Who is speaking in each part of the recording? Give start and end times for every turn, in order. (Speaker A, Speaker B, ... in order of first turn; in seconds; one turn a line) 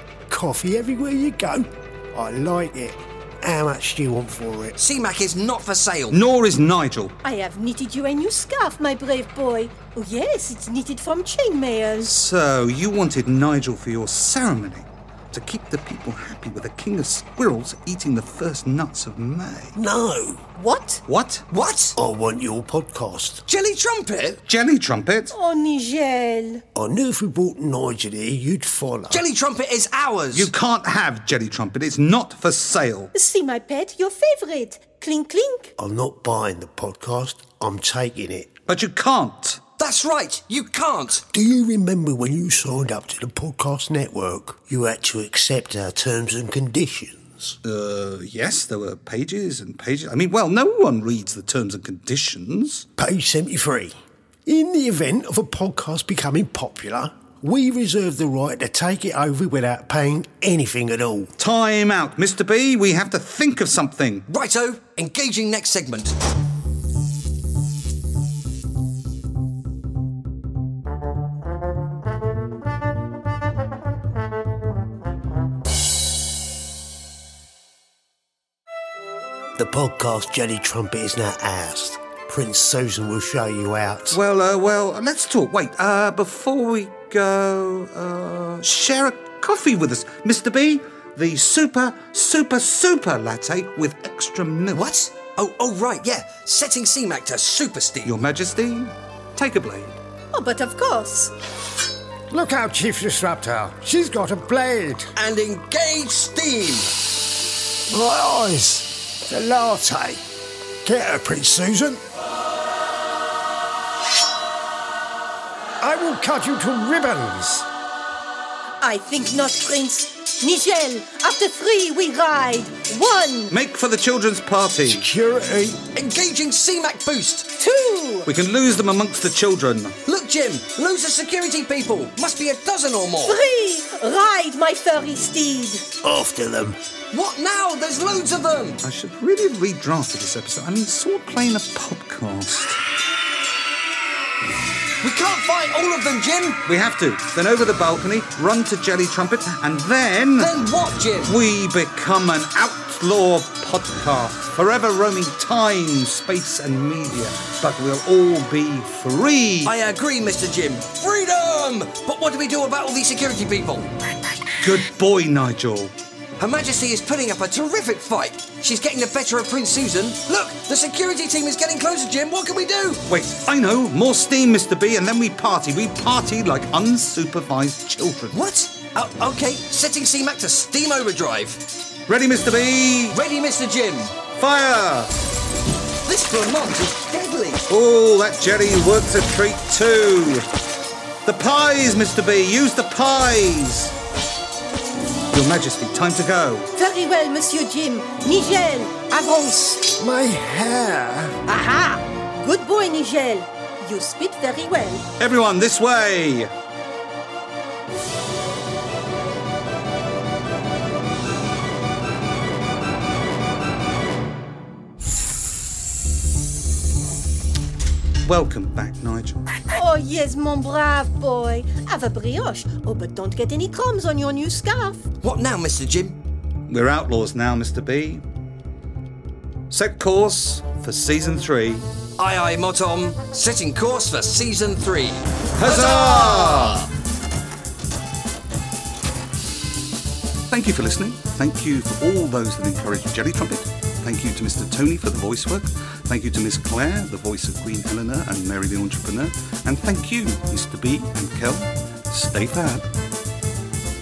Speaker A: 0.3-4.7
Speaker B: 4.8-6.2
Speaker C: 6.1-7.2
Speaker D: 7.2-12.1
Speaker C: 12.1-19.8
Speaker A: 19.7-20.4
Speaker D: 20.6-21.0
Speaker C: 21.1-21.5
Speaker B: 21.5-22.0
Speaker A: 22.0-23.4
Speaker B: 23.5-24.4
Speaker C: 24.4-25.3
Speaker D: 25.3-26.6
Speaker A: 26.8-29.2
Speaker B: 29.1-30.5
Speaker C: 30.3-33.1
Speaker D: 33.1-35.7
Speaker A: 35.8-38.5
Speaker C: 38.7-39.6
Speaker B: 39.8-41.3
Speaker A: 41.3-47.6
Speaker C: 47.6-52.9
Speaker A: 53.0-54.0
Speaker A: 54.5-61.3
Speaker C: 61.4-64.2
Speaker B: 64.3-66.1
Speaker A: 79.6-84.2
Speaker C: 84.1-94.9
Speaker B: 94.7-98.1
Speaker C: 98.0-100.0
Speaker D: 100.3-101.3
Speaker A: 102.3-105.1
Speaker B: 105.2-106.9
Speaker A: 107.9-110.2
Speaker A: 110.8-112.0
Speaker A: 115.8-117.7
Speaker D: 118.8-123.5
Speaker C: 123.5-125.1
Speaker A: 124.8-125.8
Speaker B: 125.8-127.5
Speaker D: 127.6-128.3
Speaker C: 128.3-130.0
Speaker B: 130.1-133.4
Speaker D: 133.2-135.9
Speaker A: 136.0-136.8
Speaker B: 137.1-138.8
Speaker C: 138.8-142.8
Speaker B: 145.0-146.6
Speaker C: 146.7-150.5
Speaker B: 150.4-151.3
Speaker C: 151.2-159.7
Speaker B: 159.6-163.9
Speaker C: 164.6-165.9
Speaker B: 166.4-173.0
Speaker C: 173.1-178.4
Speaker B: 178.3-181.6
Speaker C: 182.1-183.2
Speaker B: 183.1-184.2
Speaker C: 184.3-185.1
Speaker B: 186.1-187.6
Speaker C: 187.7-190.5
Speaker C: 191.2-193.9
Speaker C: 195.3-196.7
Speaker D: 196.8-199.9
Speaker A: 200.0-201.4
Speaker D: 201.5-205.0
Speaker C: 205.2-206.5
Speaker C: 218.2-219.4
Speaker D: 219.7-225.0
Speaker B: 225.2-226.2
Speaker C: 226.7-228.2
Speaker C: 229.7-231.9
Speaker B: 232.2-236.7
Speaker C: 235.6-236.9
Speaker C: 240.5-252.8